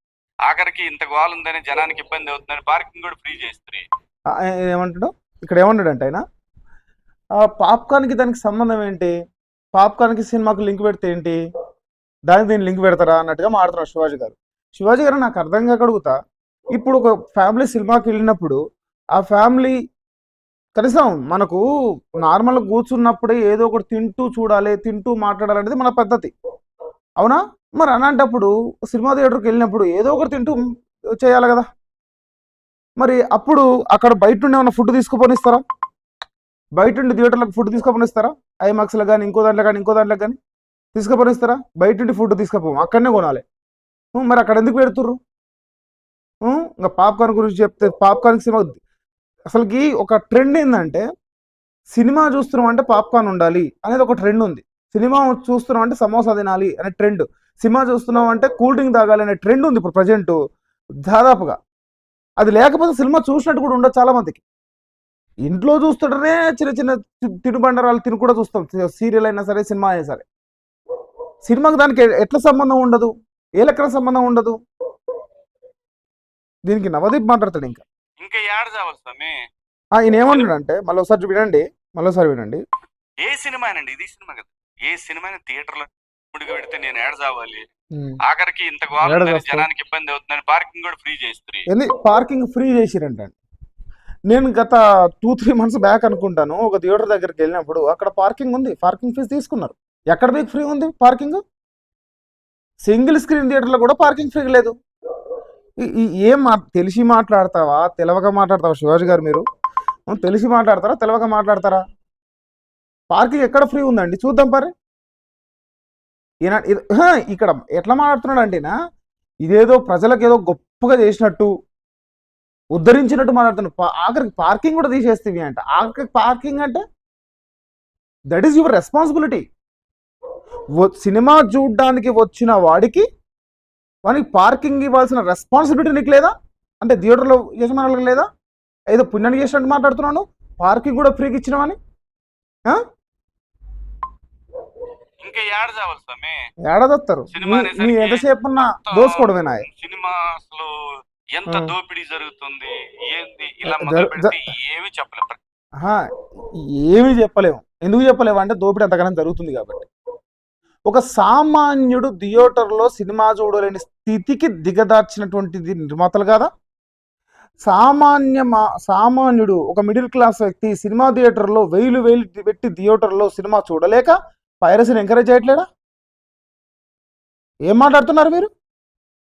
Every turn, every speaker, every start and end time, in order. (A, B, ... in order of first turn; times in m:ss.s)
0:00.5-0:03.9 A
0:04.3-0:06.2 B
0:07.4-0:09.1 B
0:09.7-0:11.4 B
0:12.3-0:16.1 B
0:16.8-0:18.6 B
0:19.2-0:19.8 B
0:20.8-0:21.6 B
0:22.2-0:26.3 B
0:27.2-0:30.6 B
0:31.2-0:31.7 B
0:33.0-0:35.6 B
0:36.8-0:40.4 B
0:41.0-0:43.4 B
0:44.2-0:45.2 B
0:46.4-0:48.8 B
0:49.5-0:51.0 B
0:51.9-1:00.4 B
1:01.0-1:01.6 B
1:02.4-1:04.4 B
1:05.5-1:10.2 B
1:11.4-1:14.6 B
1:16.7-1:17.8 B
1:18.2-1:19.4 A
1:20.0-1:22.6 B
1:23.2-1:27.7 A
1:28.0-1:28.2 B
1:28.2-1:31.7 A
1:29.0-1:29.7 B
1:31.7-1:33.4 B
1:34.3-1:41.4 B
1:42.8-1:44.7 B
1:45.8-1:49.4 B
1:50.1-1:51.8 B
1:53.1-1:54.7 B
1:56.4-1:58.7 B
1:59.4-2:01.5 B
2:02.7-2:06.8 B
2:08.3-2:09.4 B
2:10.8-2:13.0 B
2:14.1-2:18.3 B
2:18.9-2:21.8 B
2:25.2-2:26.4 A
2:26.7-2:29.6 B
2:27.3-2:30.7 A
2:31.3-2:35.4 A
2:31.5-2:31.7 B
2:33.7-2:34.4 B
2:36.8-2:39.9 B
2:40.9-2:46.5 B
2:47.6-2:55.6 B
2:57.7-2:58.5 B